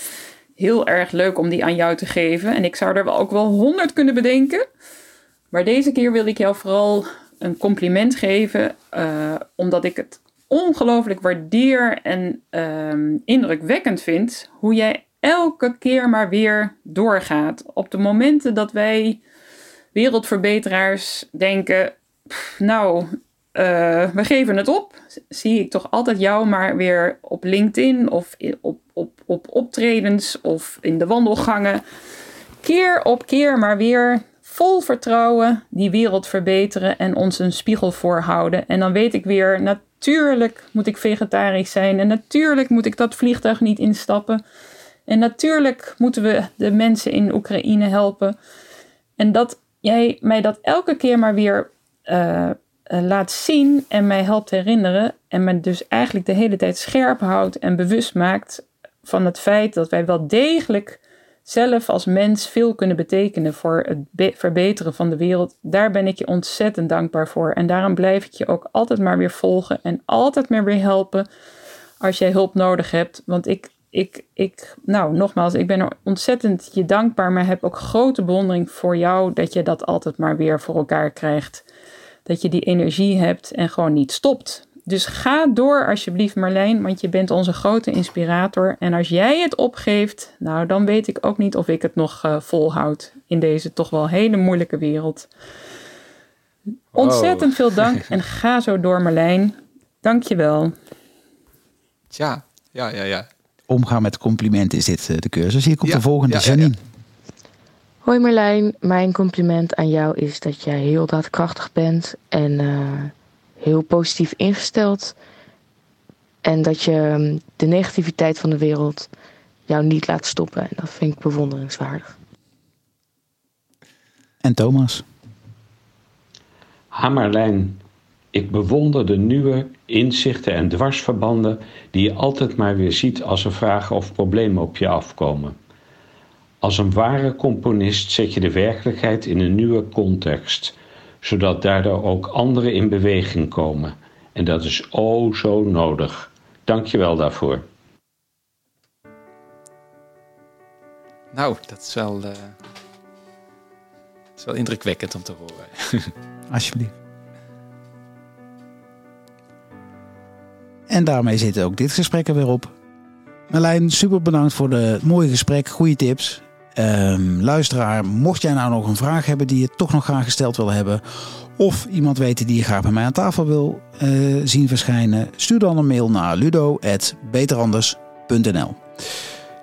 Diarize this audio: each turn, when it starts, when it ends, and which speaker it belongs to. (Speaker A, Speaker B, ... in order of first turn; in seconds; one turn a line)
Speaker A: 0.6-4.6
Speaker A: 5.5-19.2
Speaker A: 19.9-31.8
Speaker A: 32.6-44.4
Speaker A: 45.1-48.3
Speaker A: 49.2-71.2
Speaker A: 72.0-81.6
Speaker A: 82.2-95.3
Speaker A: 96.9-100.7
Speaker B: 97.0-98.0
Speaker B: 102.1-103.3
Speaker C: 103.7-106.8
Speaker B: 105.8-106.7
Speaker D: 108.0-115.1
Speaker D: 116.4-119.1
Speaker D: 119.7-122.1
Speaker C: 124.4-125.0
Speaker E: 126.9-127.8
Speaker E: 128.3-135.6
Speaker E: 136.6-147.6
Speaker B: 151.3-152.6
Speaker B: 154.4-156.1
Speaker C: 156.5-156.9
Speaker C: 160.9-162.7
Speaker C: 163.5-178.8